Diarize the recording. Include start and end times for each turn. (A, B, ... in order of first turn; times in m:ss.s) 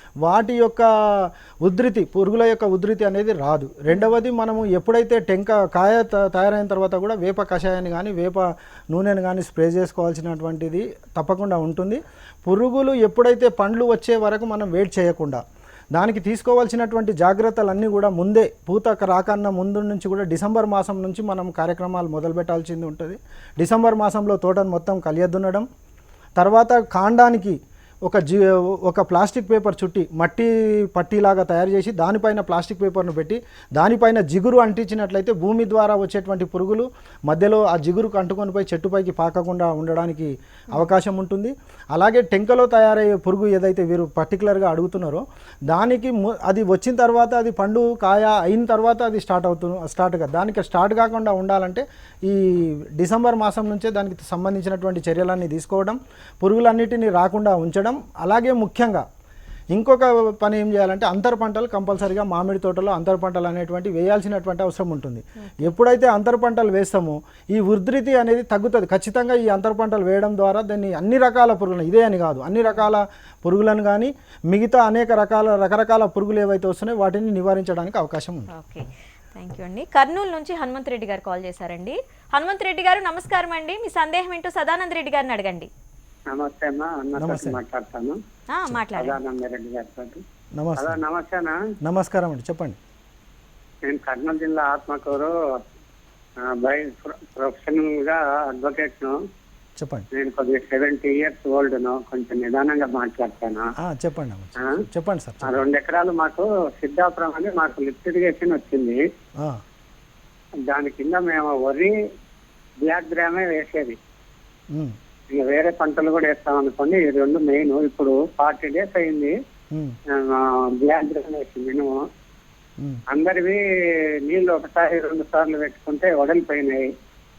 0:00.2-0:15.4 A
0:15.9-0:25.7 A
0:26.4-0:59.0 A
0:59.7-1:18.5 A
1:05.4-1:05.7 B
1:18.5-1:25.7 B
1:26.3-1:28.2 C
1:27.2-1:27.6 A
1:28.5-1:29.2 B
1:28.9-1:30.2 C
1:30.6-1:31.0 A
1:30.8-1:31.6 C
1:31.8-1:32.8 A
1:33.9-1:35.4 C
1:36.4-1:39.2 C
1:39.8-1:40.1 A
1:40.1-1:43.7 C
1:43.8-1:45.6 A
1:45.4-1:49.0 C
1:50.7-1:51.9 C
1:52.8-1:54.0 C
1:55.3-1:59.3 C
2:00.2-2:02.0 C
2:03.1-2:03.6 C
2:04.2-2:06.9 C